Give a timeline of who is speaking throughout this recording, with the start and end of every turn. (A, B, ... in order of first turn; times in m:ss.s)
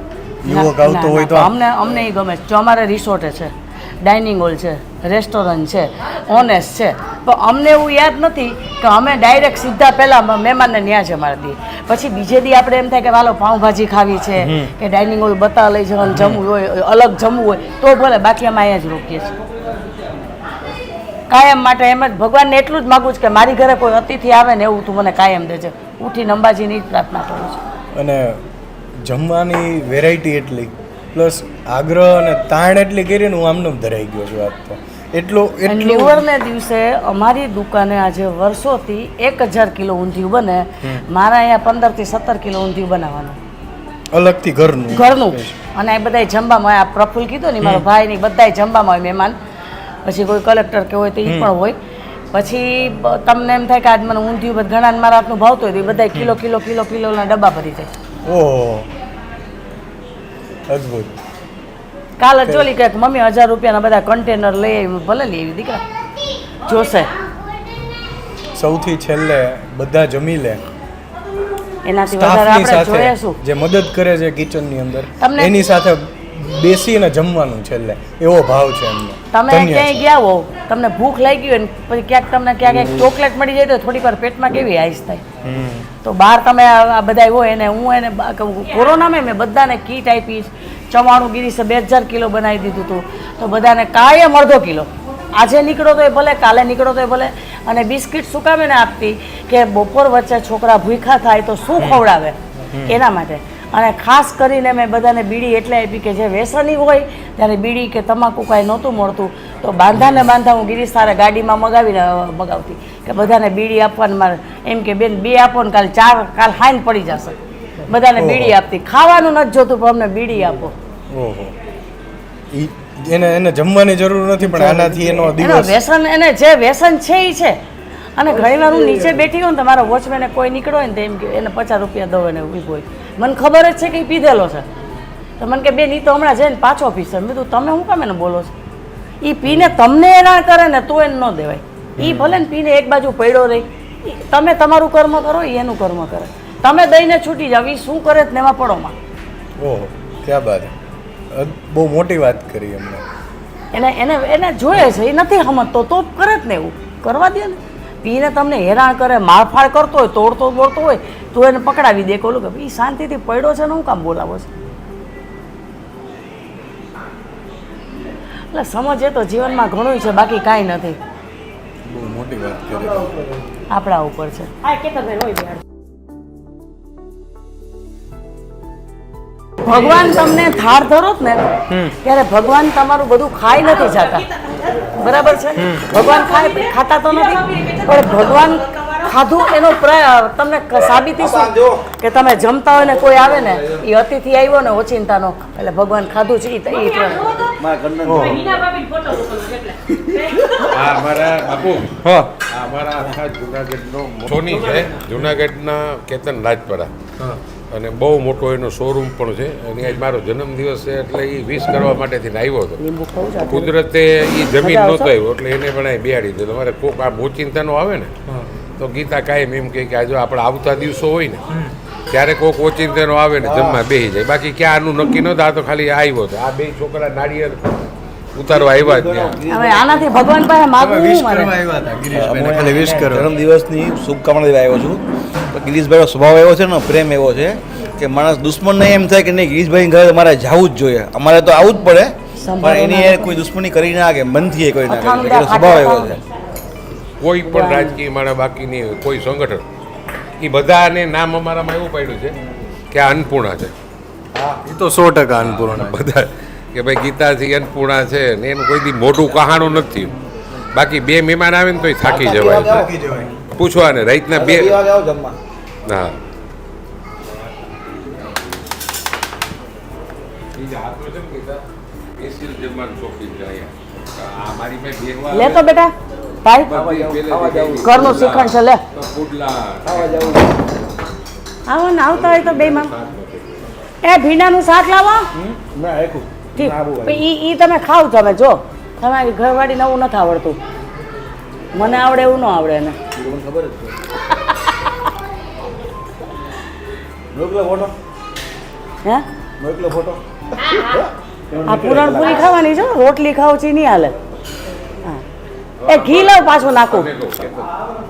0:00.4-0:01.5 A
0:00.5-0:19.3 B
0:14.4-0:14.7 A
0:16.0-0:16.4 A
0:21.3-0:27.6 B
0:27.9-0:28.4 A
0:29.0-0:36.2 A
0:35.6-0:43.4 B
0:44.1-0:45.6 A
0:44.9-0:49.4 B
0:50.0-0:51.8 B
0:51.2-0:51.5 A
0:52.3-0:57.9 B
0:58.2-0:58.9 A
1:00.7-1:01.1 A
1:02.2-1:05.8 B
1:06.6-1:07.1 B
1:08.6-1:10.6 A
1:11.8-1:13.4 B
1:12.1-1:20.0 A
1:15.2-1:15.5 B
1:19.3-1:25.2 B
1:22.6-1:23.1 A
1:25.4-1:25.9 A
1:26.0-1:42.3 B
1:42.7-1:43.0 A
1:42.8-1:57.4 B
1:50.0-1:50.2 A
1:57.9-2:00.7 B
1:58.2-1:58.5 A
2:01.1-2:01.5 A
2:02.5-2:05.8 A
2:04.4-2:07.6 B
2:08.2-2:14.6 B
2:08.6-2:09.1 A
2:15.4-2:18.5 B
2:19.2-2:28.9 B
2:19.4-2:19.7 A
2:22.0-2:22.4 A
2:29.6-2:30.7 A
2:31.3-2:33.0 A
2:33.7-2:44.5 B
2:48.5-2:51.0 B
2:51.9-2:53.2 A
2:53.7-2:55.5 B
2:59.6-3:01.4 B
3:02.0-3:04.3 B
3:04.9-3:17.5 B
3:05.6-3:05.9 A
3:11.2-3:11.8 C
3:12.8-3:13.8 C
3:17.6-3:18.8 C
3:18.0-3:18.4 A
3:20.6-3:26.9 D
3:22.0-3:22.3 A
3:27.7-3:32.8 D
3:32.8-3:33.7 B
3:33.4-3:38.1 D
3:34.6-3:35.1 B
3:38.8-3:41.4 D
3:42.1-3:47.6 D
3:43.4-3:43.8 C
3:48.4-3:49.4 D
3:48.5-3:50.2 C
3:49.5-3:51.5 B
3:50.8-3:53.3 A
3:52.1-4:06.2 C
4:02.4-4:03.4 B
4:04.8-4:06.2 B
4:07.2-4:09.6 D
4:07.4-4:08.0 B
4:10.4-4:12.3 D
4:12.9-4:13.7 D
4:14.6-4:16.0 A
4:15.4-4:20.2 D
4:20.7-4:22.9 D
4:22.0-4:22.9 C
4:22.6-4:23.4 A
4:23.5-4:24.9 D
4:24.3-4:25.4 C
4:25.8-4:26.2 D
4:30.5-4:31.6 D
4:32.2-4:35.8 D
4:35.3-4:35.9 B
4:36.4-4:36.7 B
4:36.6-4:40.3 D
4:36.7-4:38.2 C
4:37.8-4:38.8 B
4:39.8-4:40.6 C
4:41.7-4:42.9 B
4:42.1-4:43.5 D
4:44.0-4:45.3 B
4:45.3-4:47.2 C
4:46.6-4:50.6 B
4:51.7-4:53.0 B
4:53.1-4:54.0 C
4:57.3-4:57.9 C
4:59.6-5:02.5 C
5:01.6-5:04.1 B
5:05.8-5:07.6 D
5:05.8-5:07.1 B